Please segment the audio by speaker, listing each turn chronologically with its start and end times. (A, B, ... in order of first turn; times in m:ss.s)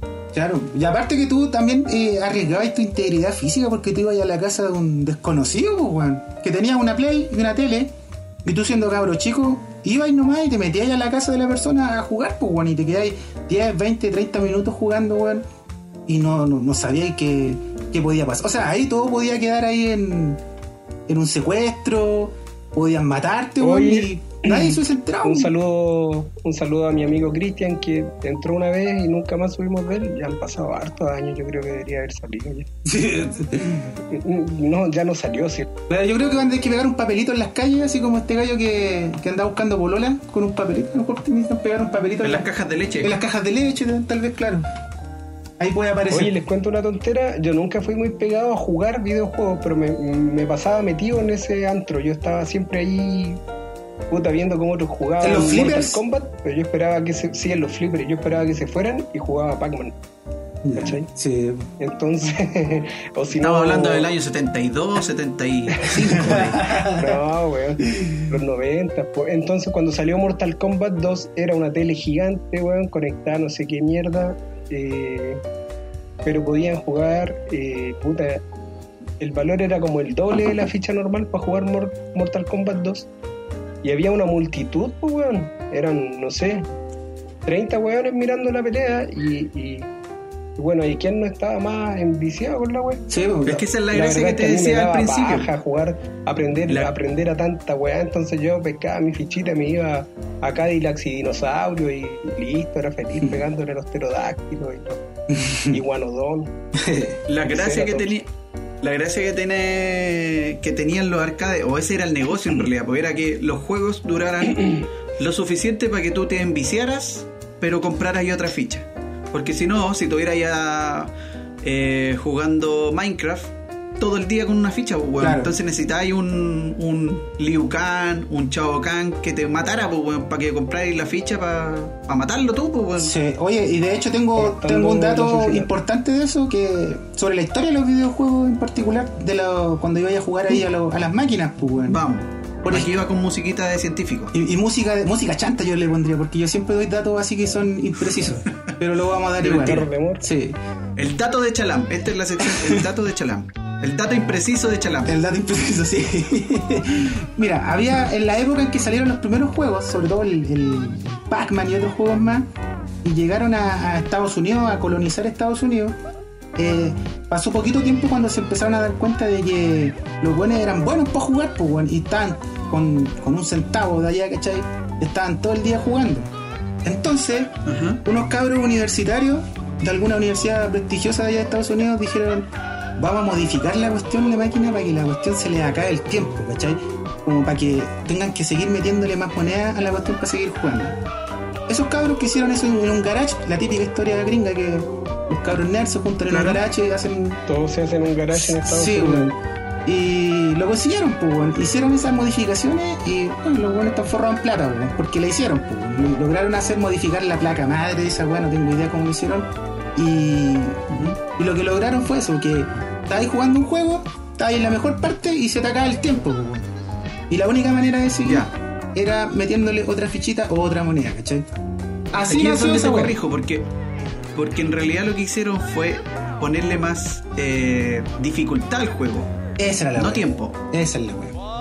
0:00.3-0:07.9 A
0:08.4-0:15.4 A
0:16.1-0:20.4 A
0:21.1-0:25.5 A
0:23.6-0:32.7 B
0:32.8-0:33.9 A
0:34.0-0:35.7 B
0:35.9-0:42.5 A
0:42.2-0:43.2 C
0:43.0-0:44.6 A
0:45.6-0:46.3 A
0:46.1-0:53.4 B
0:54.1-0:59.9 B
0:55.2-0:56.0 A
1:00.6-1:01.7 A
1:00.8-1:01.1 B
1:01.8-1:04.1 B
1:03.3-1:06.6 C
1:05.8-1:15.4 B
1:06.0-1:07.1 A
1:08.0-1:08.2 A
1:16.2-1:18.4 B
1:19.2-1:23.1 B
1:23.8-1:26.6 B
1:27.4-1:29.9 B
1:30.6-1:33.0 B
1:33.1-1:33.6 A
1:33.4-1:35.5 C
1:33.9-1:45.0 B
1:45.3-1:45.8 A
1:45.6-1:46.5 B
1:46.7-1:47.2 A
1:47.3-1:48.3 C
1:47.4-1:48.1 B
1:48.8-2:01.1 C
2:01.6-2:13.1 C
2:05.2-2:05.5 A
2:13.0-2:22.0 A
2:14.4-2:15.7 B
2:21.9-2:24.3 C
2:22.6-2:23.0 A
2:24.3-2:30.6 A
2:29.4-2:29.8 C
2:29.5-2:30.2 B
2:31.0-2:35.2 C
2:32.4-2:32.8 A
2:35.0-2:42.5 A
2:43.0-2:46.0 A
2:46.6-2:56.3 A
2:56.8-3:11.0 A
2:57.6-2:58.0 C
3:11.7-3:17.4 A
3:16.3-3:16.6 B
3:17.5-3:19.3 B
3:18.3-3:36.7 A
3:30.9-3:31.2 C
3:37.3-3:41.4 A
3:38.2-3:38.5 C
3:42.1-3:43.2 A
3:42.2-3:43.7 C
3:44.3-3:49.3 C
3:49.6-3:51.4 A
3:49.9-3:50.6 C